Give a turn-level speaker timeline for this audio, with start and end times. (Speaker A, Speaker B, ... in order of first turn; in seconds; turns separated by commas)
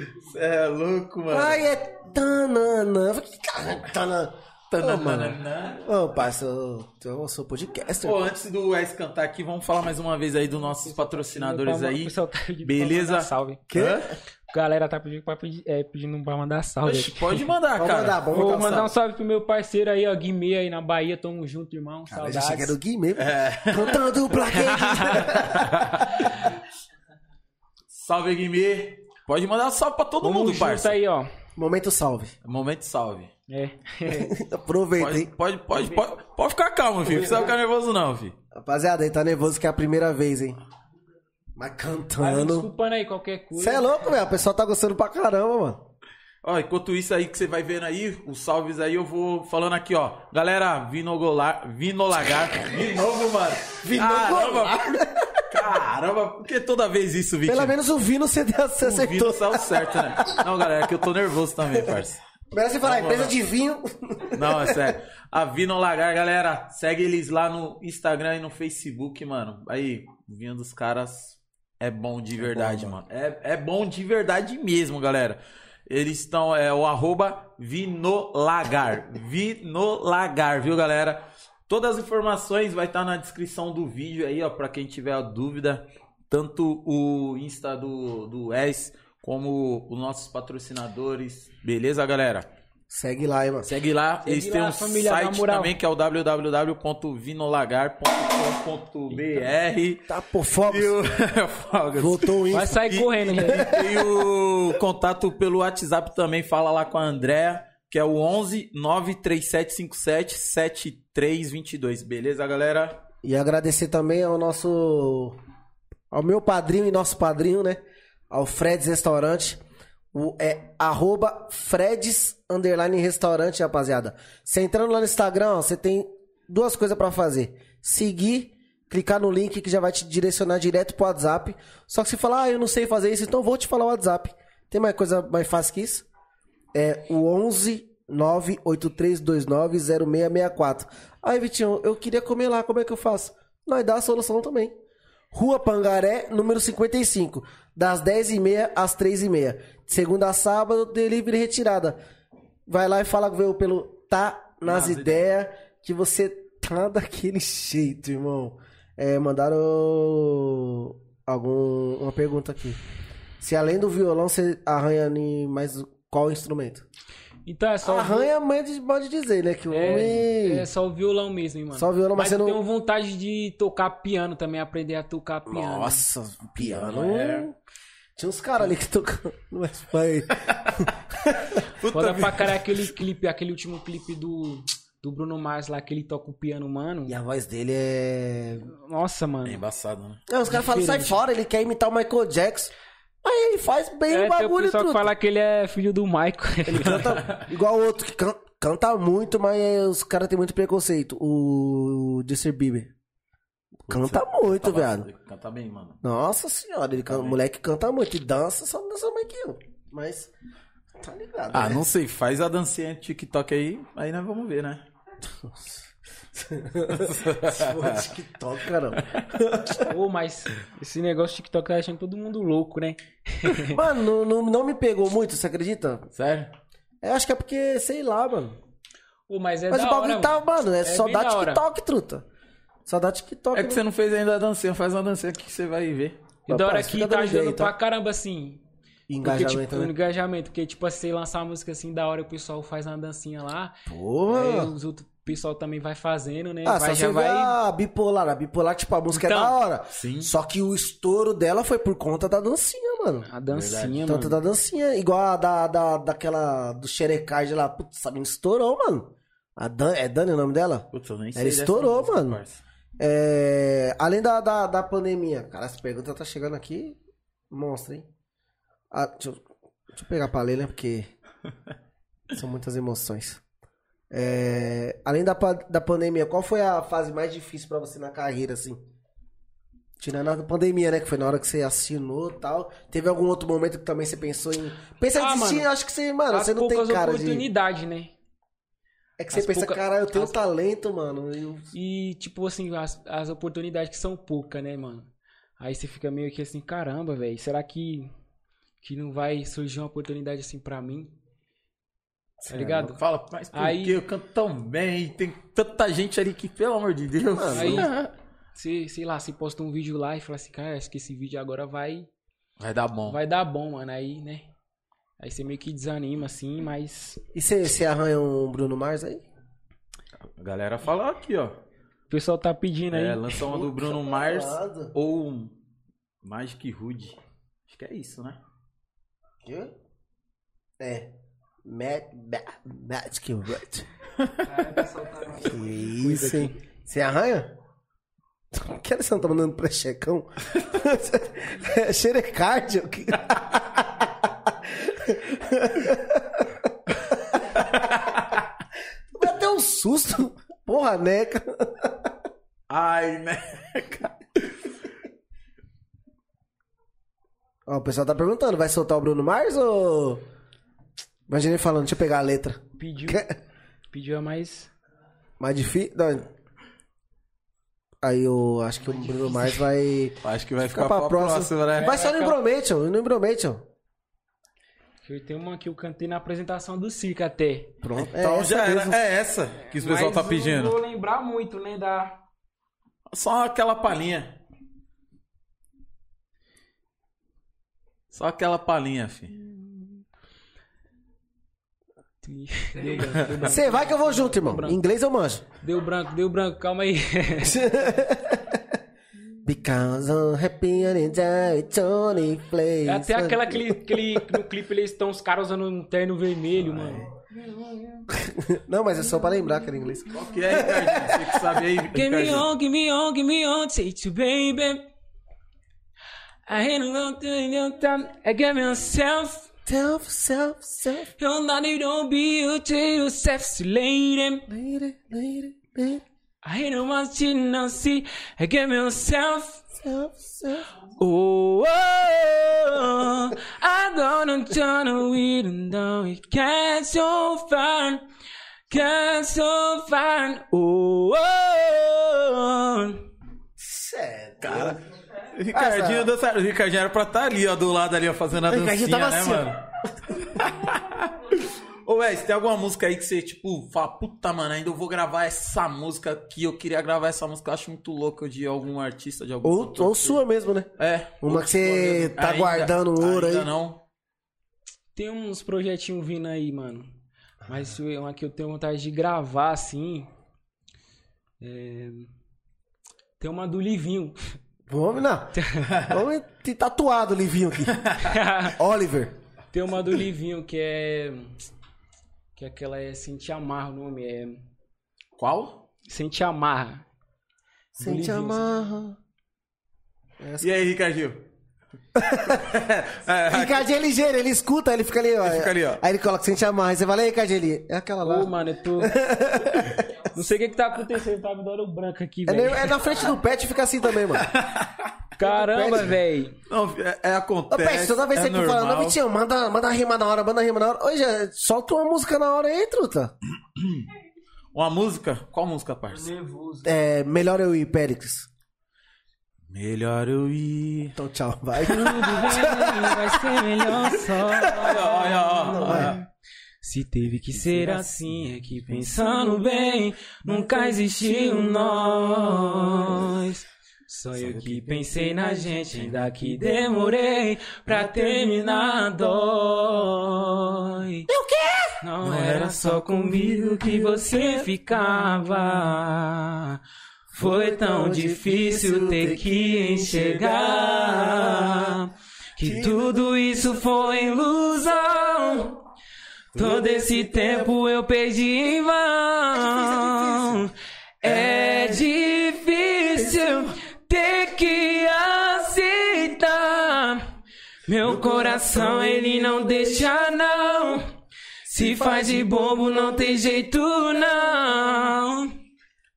Speaker A: 0.2-1.6, Speaker B: 1.3-8.3, Speaker A: 4.7-5.8, Speaker A: 8.0-14.1, Speaker C: 10.8-13.6, Speaker B: 13.7-14.1, Speaker C: 14.5-17.4, Speaker A: 16.8-18.7, Speaker B: 17.8-18.9, Speaker C: 18.3-22.8, Speaker B: 22.1-26.2, Speaker A: 23.2-24.1, Speaker C: 24.6-26.2, Speaker A: 27.9-31.0, Speaker C: 30.2-31.3, Speaker B: 31.6-32.3, Speaker A: 32.5-33.3, Speaker C: 33.5-34.3, Speaker B: 34.1-35.3, Speaker A: 35.0-38.3, Speaker B: 37.2-37.5, Speaker B: 38.5-40.6, Speaker B: 41.5-42.7, Speaker C: 42.2-44.1, Speaker B: 43.6-45.8, Speaker A: 46.4-57.8, Speaker B: 53.7-55.5, Speaker B: 57.5-60.4, Speaker A: 58.8-62.2, Speaker B: 62.5-65.0, Speaker A: 62.8-63.4, Speaker A: 64.3-92.5, Speaker B: 72.4-73.0, Speaker B: 92.9-93.7, Speaker A: 93.7-100.1, Speaker C: 94.2-95.8, Speaker C: 99.1-99.4, Speaker B: 100.1-101.0, Speaker A: 100.7-113.0, Speaker B: 102.0-102.8, Speaker C: 102.5-103.7, Speaker B: 103.4-104.0, Speaker B: 113.2-115.4, Speaker B: 116.1-117.8, Speaker B: 118.3-119.6, Speaker B: 120.1-136.1, Speaker B: 136.7-144.7, Speaker B: 145.3-152.0, Speaker B: 152.7-162.8, Speaker A: 154.6-155.3, Speaker B: 163.4-166.9, Speaker C: 167.5-168.3, Speaker B: 167.8-170.7, Speaker C: 169.7-176.0, Speaker B: 171.8-172.6, Speaker B: 175.5-177.5, Speaker A: 176.4-177.5, Speaker B: 178.2-181.6, Speaker A: 180.4-180.8, Speaker A: 181.8-182.7, Speaker C: 181.9-187.2, Speaker B: 187.1-188.7, Speaker C: 188.7-189.6, Speaker A: 189.4-190.2, Speaker B: 190.3-192.7, Speaker C: 190.5-191.2, Speaker B: 193.2-195.1, Speaker C: 194.1-197.2, Speaker B: 196.7-202.9, Speaker A: 197.0-197.4, Speaker B: 203.9-205.1, Speaker A: 203.9-206.0, Speaker B: 206.0-210.3, Speaker A: 207.1-207.4, Speaker B: 211.0-211.8, Speaker A: 211.5-214.8, Speaker B: 215.4-219.9, Speaker A: 216.9-218.0, Speaker C: 219.9-223.8, Speaker B: 223.6-226.1, Speaker A: 226.2-226.5, Speaker B: 227.0-228.6, Speaker C: 229.3-231.6, Speaker B: 229.7-232.2, Speaker B: 232.9-233.8, Speaker A: 233.5-236.2, Speaker B: 236.5-237.7, Speaker C: 236.5-238.6, Speaker B: 239.1-239.9, Speaker C: 239.2-247.6, Speaker B: 243.9-244.7, Speaker B: 246.7-253.3, Speaker C: 249.1-249.6, Speaker A: 249.9-250.3, Speaker C: 253.3-254.4, Speaker A: 253.5-254.1, Speaker B: 254.1-262.4, Speaker A: 260.9-262.6, Speaker B: 263.0-267.0, Speaker B: 267.5-268.1, Speaker B: 268.9-271.1, Speaker B: 272.3-273.4, Speaker B: 274.1-278.8, Speaker B: 280.0-287.5, Speaker C: 285.1-285.7, Speaker C: 286.3-288.1, Speaker B: 289.2-291.7, Speaker C: 289.3-290.3, Speaker C: 291.7-298.1, Speaker C: 298.8-301.1, Speaker B: 302.4-302.9, Speaker C: 302.5-303.0, Speaker A: 302.7-308.0, Speaker C: 303.5-304.0, Speaker B: 307.4-307.9, Speaker C: 307.5-312.1, Speaker A: 312.6-313.2, Speaker C: 313.1-314.5, Speaker C: 315.2-317.2, Speaker B: 317.4-319.2, Speaker A: 320.4-321.6, Speaker C: 322.1-323.5, Speaker A: 322.9-325.5, Speaker B: 323.5-324.9, Speaker A: 326.2-327.2, Speaker A: 327.7-328.4, Speaker B: 329.4-329.7, Speaker B: 330.8-331.1, Speaker B: 331.6-333.9, Speaker C: 334.4-336.6, Speaker B: 335.4-337.5, Speaker B: 338.5-347.6, Speaker A: 347.6-348.4, Speaker B: 349.1-352.1, Speaker A: 352.7-354.5, Speaker B: 357.7-360.2, Speaker B: 361.3-363.3, Speaker C: 362.8-363.3, Speaker C: 363.9-364.7, Speaker B: 365.4-366.3, Speaker B: 368.0-373.6, Speaker C: 368.9-369.6, Speaker A: 370.2-371.9, Speaker C: 371.7-372.4, Speaker C: 375.0-377.8, Speaker B: 377.8-379.0, Speaker A: 378.0-380.8, Speaker C: 379.7-382.2, Speaker A: 383.1-384.4, Speaker A: 388.1-389.4, Speaker C: 392.2-394.8, Speaker A: 392.9-393.4, Speaker B: 393.4-395.4, Speaker C: 395.6-397.7, Speaker B: 397.4-398.6, Speaker B: 399.4-404.4, Speaker C: 402.9-407.1, Speaker B: 406.7-407.1, Speaker B: 408.1-411.6, Speaker A: 410.1-412.5, Speaker C: 411.9-414.8, Speaker C: 416.5-419.5, Speaker B: 419.7-421.1, Speaker C: 421.2-424.5, Speaker B: 424.5-426.0, Speaker C: 426.4-429.7, Speaker B: 429.8-430.7, Speaker C: 431.0-438.0, Speaker C: 438.7-443.1, Speaker B: 443.6-444.8, Speaker A: 444.4-444.8, Speaker A: 445.3-449.6, Speaker B: 445.5-446.1, Speaker B: 448.5-449.5, Speaker A: 450.2-460.2, Speaker B: 459.4-460.7, Speaker A: 460.8-463.8, Speaker B: 461.2-463.5, Speaker C: 464.9-466.9, Speaker C: 467.5-470.1, Speaker C: 471.4-472.1, Speaker C: 473.2-474.2, Speaker B: 474.7-477.8, Speaker C: 475.4-475.7, Speaker C: 478.0-478.6, Speaker B: 478.5-479.1, Speaker C: 479.5-481.4, Speaker C: 482.4-484.4, Speaker A: 485.2-485.6, Speaker C: 485.9-486.9, Speaker B: 487.8-489.0, Speaker C: 487.8-488.4, Speaker B: 490.2-490.5, Speaker A: 490.4-491.3, Speaker B: 492.0-492.5, Speaker A: 492.1-493.7, Speaker B: 493.3-500.1, Speaker A: 495.2-495.8, Speaker C: 498.0-499.0, Speaker C: 500.1-502.8, Speaker B: 502.3-504.3, Speaker A: 504.2-504.9, Speaker C: 505.2-506.4, Speaker B: 505.2-506.0, Speaker A: 506.5-509.0, Speaker B: 507.5-513.1, Speaker A: 513.6-513.9, Speaker A: 514.5-516.1, Speaker C: 515.9-516.8, Speaker B: 516.6-518.3, Speaker A: 519.5-521.0, Speaker B: 521.0-523.2, Speaker C: 521.7-526.1, Speaker A: 521.9-522.2, Speaker A: 524.4-526.0, Speaker B: 525.5-526.0, Speaker C: 526.6-541.1, Speaker A: 534.1-534.9, Speaker B: 541.1-541.8, Speaker C: 541.8-546.6, Speaker A: 542.0-544.2, Speaker B: 547.1-551.7, Speaker C: 547.2-555.6, Speaker B: 552.4-552.8, Speaker C: 556.4-567.0, Speaker B: 559.4-560.4, Speaker A: 561.1-561.8, Speaker C: 567.7-570.9, Speaker B: 567.9-569.7, Speaker C: 571.5-575.3